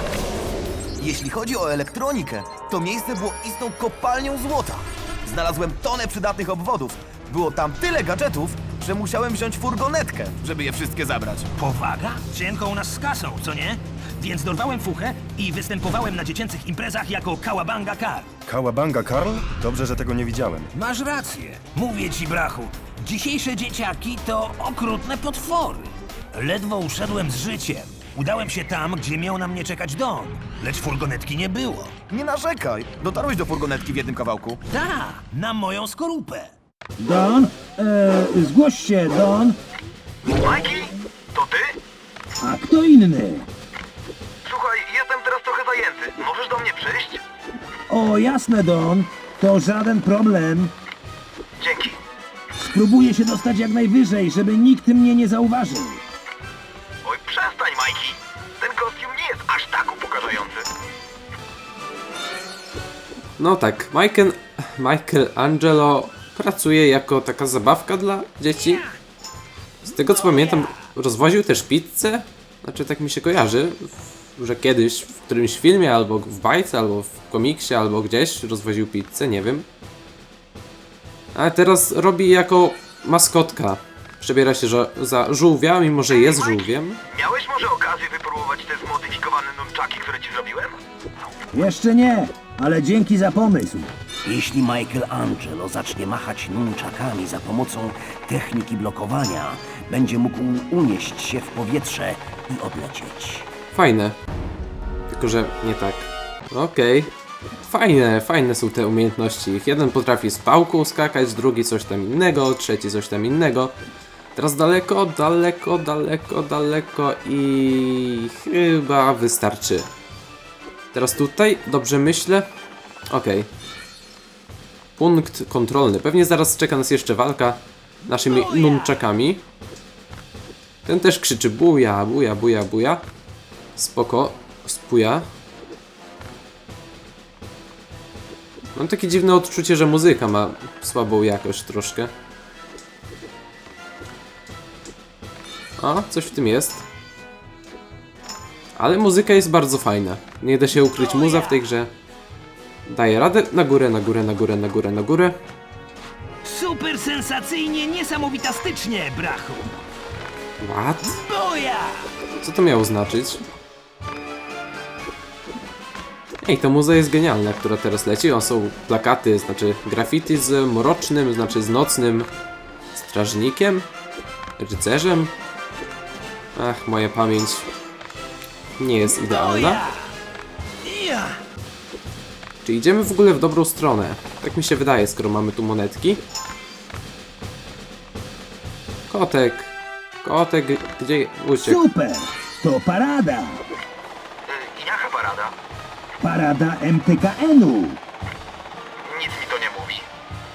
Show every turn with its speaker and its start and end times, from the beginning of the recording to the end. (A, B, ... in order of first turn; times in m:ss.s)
0:01.0-0:11.5 A
0:11.6-0:18.3 B
0:18.5-0:20.7 C
0:20.7-0:31.9 B
0:32.1-0:34.6 A
0:34.7-0:36.5 B
0:37.0-0:39.6 D
0:40.3-0:41.8 E
0:42.4-0:43.5 D
0:44.4-0:47.2 E
0:47.9-0:50.7 D
0:51.6-0:52.0 E
0:52.6-0:56.0 D
0:57.0-1:00.7 E
1:03.4-1:08.8 F
1:08.6-1:09.0 B
1:09.8-1:19.7 F
1:10.0-1:10.9 B
1:21.4-1:27.0 F
1:27.1-1:30.8 E
1:31.5-1:33.9 D
1:34.2-1:43.5 G
1:43.7-1:44.2 F
1:45.1-1:47.1 F
1:47.7-1:53.7 F
1:54.4-1:59.9 F
2:00.9-2:02.5 F
2:03.1-2:03.5 F
2:05.0-2:09.4 F
2:08.1-2:09.0 B
2:10.9-2:13.0 F
2:13.8-2:15.3 F
2:18.8-2:22.1 F
2:25.8-2:26.8 F
2:28.8-2:31.9 F
2:31.0-2:31.7 B
2:32.9-2:35.4 F
2:36.4-2:39.8 B
2:40.6-2:41.2 F
2:41.0-2:42.1 B
2:42.4-2:43.4 F
2:46.4-2:52.3 F
2:52.9-2:53.9 F
2:54.6-2:55.3 F
2:56.6-2:57.7 F
2:58.8-2:59.8 F
2:59.1-3:00.1 B
3:00.8-3:01.4 B
3:02.6-3:06.2 F
3:09.1-3:09.7 F
3:10.2-3:11.8 F
3:11.6-3:13.6 D
3:14.5-3:15.6 E
3:16.2-3:18.0 D
3:19.1-3:20.1 E